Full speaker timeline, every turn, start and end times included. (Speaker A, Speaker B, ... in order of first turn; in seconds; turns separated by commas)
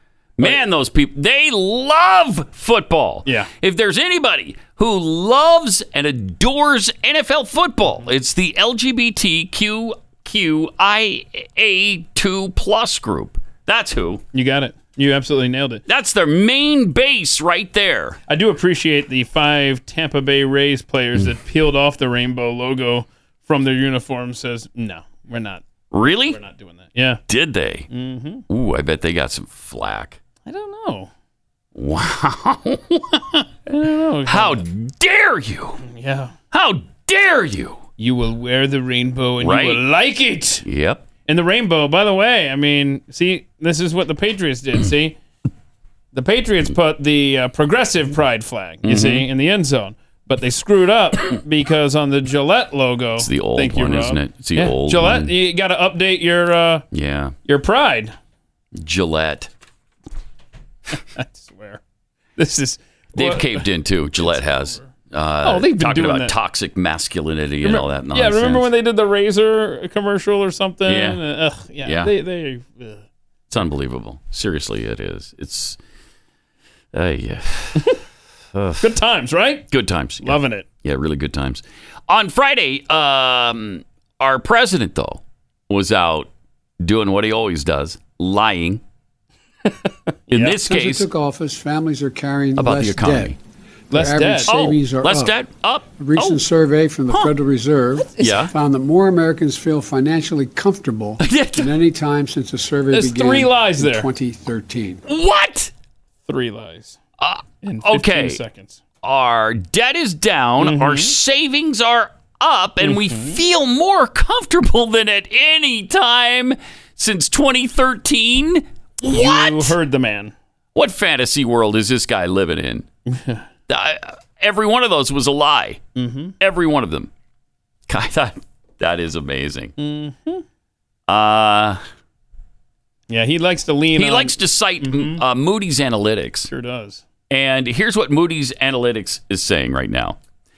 Speaker A: 0.4-14.2, Speaker B: 14.3-15.8, Speaker A: 15.9-18.2, Speaker B: 18.3-25.6, Speaker A: 25.9-26.4, Speaker B: 26.3-27.2, Speaker A: 27.3-27.9, Speaker B: 27.9-28.4, Speaker A: 28.5-30.2, Speaker B: 30.4-31.1, Speaker A: 31.7-33.4, Speaker B: 33.7-34.6, Speaker A: 34.2-35.8, Speaker B: 35.8-36.4, Speaker A: 36.5-37.8, Speaker B: 38.0-40.6, Speaker A: 39.4-39.8, Speaker A: 40.6-41.1, Speaker B: 41.2-45.2, Speaker B: 46.1-56.8, Speaker A: 48.8-49.2, Speaker A: 53.2-55.3, Speaker A: 56.9-57.4, Speaker B: 57.5-58.1, Speaker A: 58.7-59.5, Speaker B: 60.9-61.8, Speaker B: 62.4-63.6, Speaker A: 63.1-68.7, Speaker B: 64.2-64.9, Speaker B: 65.4-66.3, Speaker B: 67.6-73.0, Speaker A: 70.8-71.2, Speaker A: 71.8-72.1, Speaker A: 73.5-75.8, Speaker A: 76.9-78.0, Speaker A: 78.5-79.0, Speaker B: 78.8-79.7, Speaker A: 79.7-88.8, Speaker B: 80.2-80.7, Speaker B: 89.7-90.5, Speaker A: 90.3-91.0, Speaker C: 90.5-93.3, Speaker A: 92.5-93.4, Speaker B: 93.9-94.6, Speaker C: 93.9-95.3, Speaker A: 94.5-96.4, Speaker C: 96.0-105.0, Speaker A: 98.2-98.5, Speaker A: 101.2-101.7, Speaker B: 102.9-104.1, Speaker A: 105.0-105.7, Speaker B: 106.2-107.0, Speaker A: 107.2-108.4, Speaker B: 107.6-108.8, Speaker A: 109.0-119.7, Speaker B: 110.6-111.1, Speaker B: 112.8-113.4, Speaker B: 119.1-120.3, Speaker A: 120.7-122.9, Speaker B: 123.1-123.5, Speaker A: 123.7-125.8, Speaker B: 126.0-126.3, Speaker A: 126.4-127.1, Speaker A: 127.9-129.7, Speaker B: 129.8-130.4, Speaker A: 131.1-131.8, Speaker B: 133.1-135.2, Speaker A: 133.9-136.5, Speaker B: 136.5-137.0, Speaker A: 137.3-140.2